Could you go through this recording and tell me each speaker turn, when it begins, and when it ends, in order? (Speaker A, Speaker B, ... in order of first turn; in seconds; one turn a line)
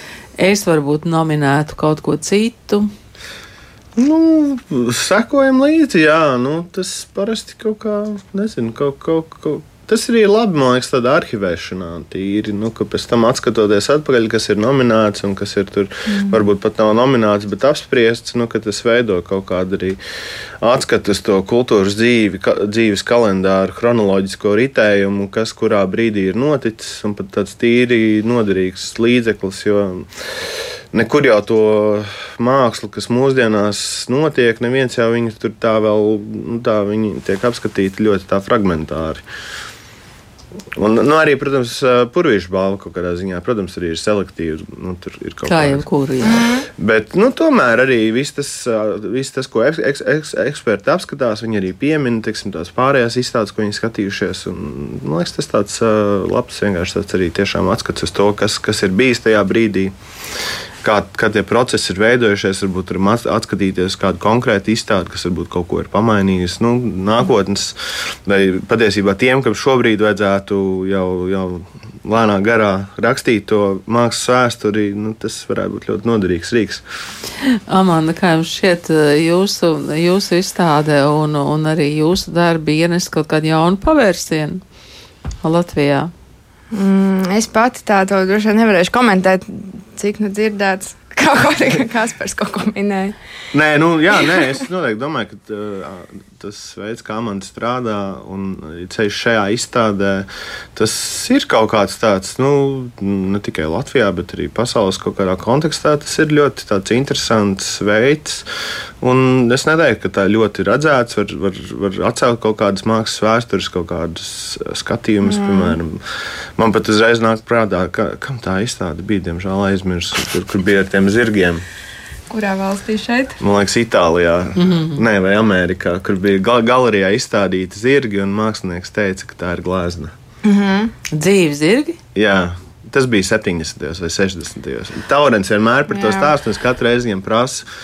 Speaker A: 0.4-2.9
Speaker B: 4.0-20.0
Speaker C: 16.1-16.4
Speaker B: 20.6-30.1
Speaker B: 30.9-39.2
Speaker B: 40.8-45.8
Speaker A: 45.5-46.5
Speaker C: 46.2-46.7
Speaker B: 46.7-59.9
Speaker B: 60.8-76.8
Speaker A: 77.4-84.6
Speaker A: 85.4-86.1
Speaker C: 86.7-93.1
Speaker B: 93.5-108.4
Speaker B: 109.0-116.0
Speaker C: 115.2-115.8
Speaker B: 116.6-121.6
Speaker C: 122.3-123.4
Speaker B: 123.4-130.1
Speaker A: 124.6-125.0
Speaker C: 130.4-130.9
Speaker A: 131.1-132.0
Speaker B: 132.1-137.7
Speaker C: 135.9-136.3